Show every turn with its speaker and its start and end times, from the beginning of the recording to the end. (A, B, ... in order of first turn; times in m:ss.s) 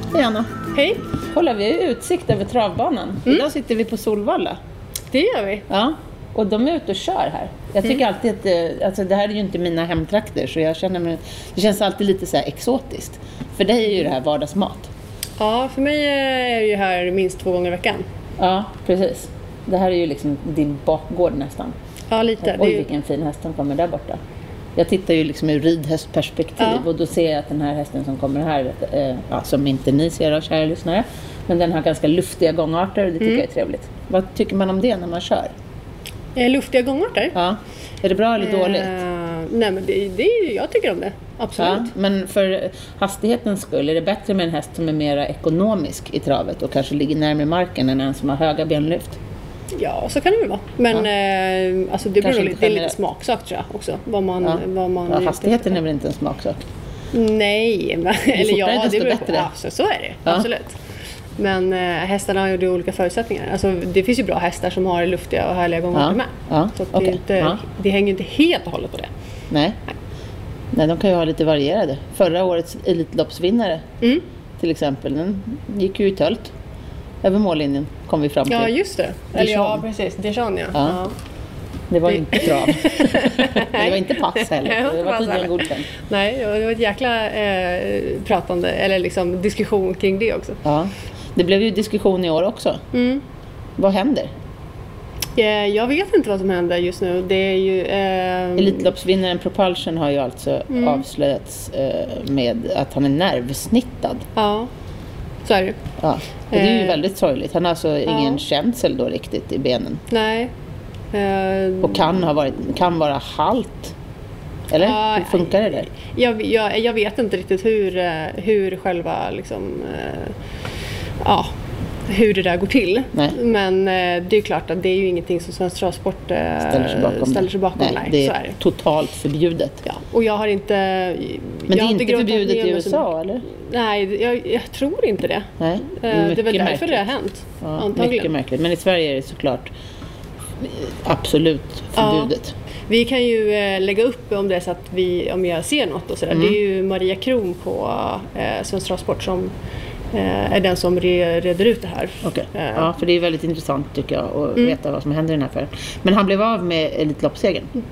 0:00.1-0:00.5 A
0:00.7-0:01.0 B
0:01.3-0:04.6 A
0:05.1-0:05.7 B
0:05.7-0:14.9 A
0:15.4-0:18.0 B
0:18.4-0:21.8 A
0:22.1-0:22.9 B
0:22.4-0:24.2 A
0:24.8-0:35.5 A
0:26.6-0:26.8 B
0:36.4-0:37.3 B
0:37.3-0:38.9 A
0:38.4-0:41.9 B
0:41.6-0:49.2 A
0:49.8-0:55.8 B
0:52.2-0:53.0 A
0:54.4-0:56.7 A
0:57.1-1:00.8 B
0:58.3-0:59.5 A
1:01.4-1:09.1 B
1:05.9-1:07.6 A
1:09.5-1:09.8 A
1:10.7-1:13.8 A
1:14.6-1:16.5 A
1:17.2-1:18.7 A
1:18.5-1:21.1 B
1:19.3-1:19.8 A
1:20.8-1:21.0 A
1:21.9-1:25.9 A
1:22.1-1:30.6 B
1:30.6-1:32.8 A
1:32.9-1:33.2 B
1:33.8-1:34.3 A
1:35.4-1:38.9 B
1:38.6-1:44.2 A
1:40.7-1:41.0 B
1:44.4-1:44.7 B
1:45.4-1:45.8 B
1:46.0-1:50.0 A
1:46.5-1:47.0 B
1:48.1-1:48.4 B
1:50.1-1:50.5 B
1:51.1-1:52.1 B
1:51.8-1:53.9 A
1:54.7-1:55.9 A
1:54.8-2:00.4 B
2:01.2-2:01.5 B
2:02.1-2:08.6 B
2:06.7-2:09.8 A
2:09.8-2:18.3 B
2:11.7-2:13.4 A
2:15.6-2:17.1 A
2:17.6-2:19.7 A
2:20.6-2:22.5 A
2:22.0-2:22.3 B
2:22.9-2:29.5 B
2:26.3-2:26.6 A
2:30.1-2:32.9 B
2:32.2-2:37.7 A